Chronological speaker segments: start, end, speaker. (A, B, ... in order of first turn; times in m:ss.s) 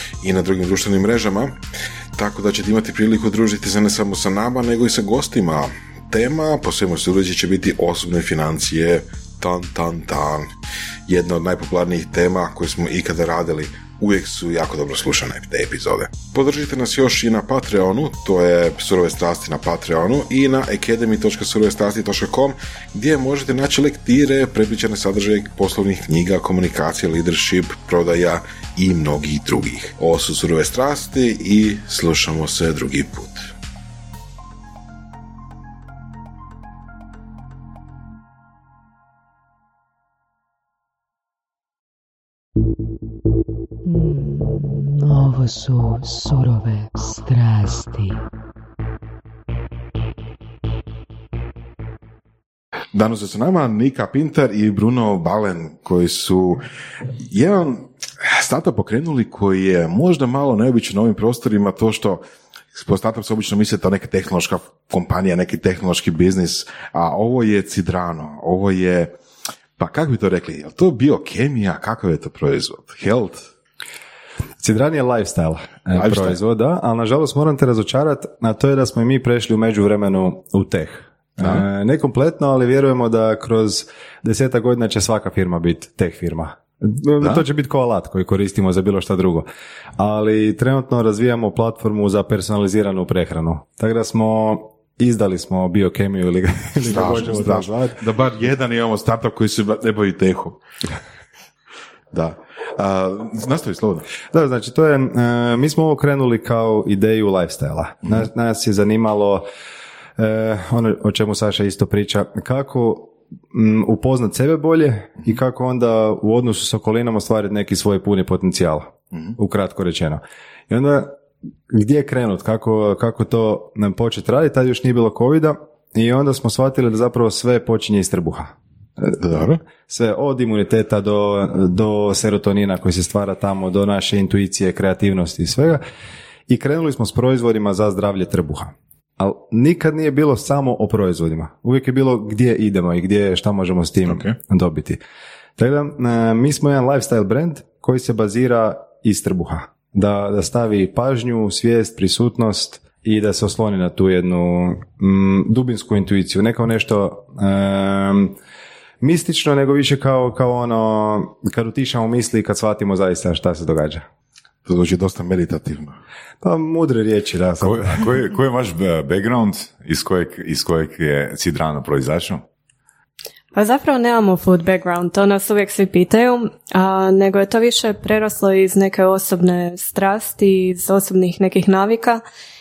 0:00.2-0:01.6 A
0:02.1-0:10.5 A
0:11.1-0:33.5 A
0:43.8-0:48.2 B
0:52.9-0:56.6 A
0:57.2-1:02.2 A
1:02.7-1:09.1 A
1:09.8-1:13.5 A
1:14.6-1:38.0 C
1:15.9-1:16.4 A
1:21.4-1:21.6 A
1:36.8-1:40.6 A
1:42.1-1:44.0 A
1:44.3-1:49.4 C
1:50.2-2:01.2 C
2:01.7-2:15.8 C
2:09.2-2:09.6 A
2:16.5-2:25.0 C
2:24.1-2:24.4 A
2:25.6-2:38.4 C
2:39.0-2:44.0 C
2:44.6-2:45.9 A
2:46.4-2:48.0 C
2:47.6-2:52.4 D
2:53.5-3:02.2 E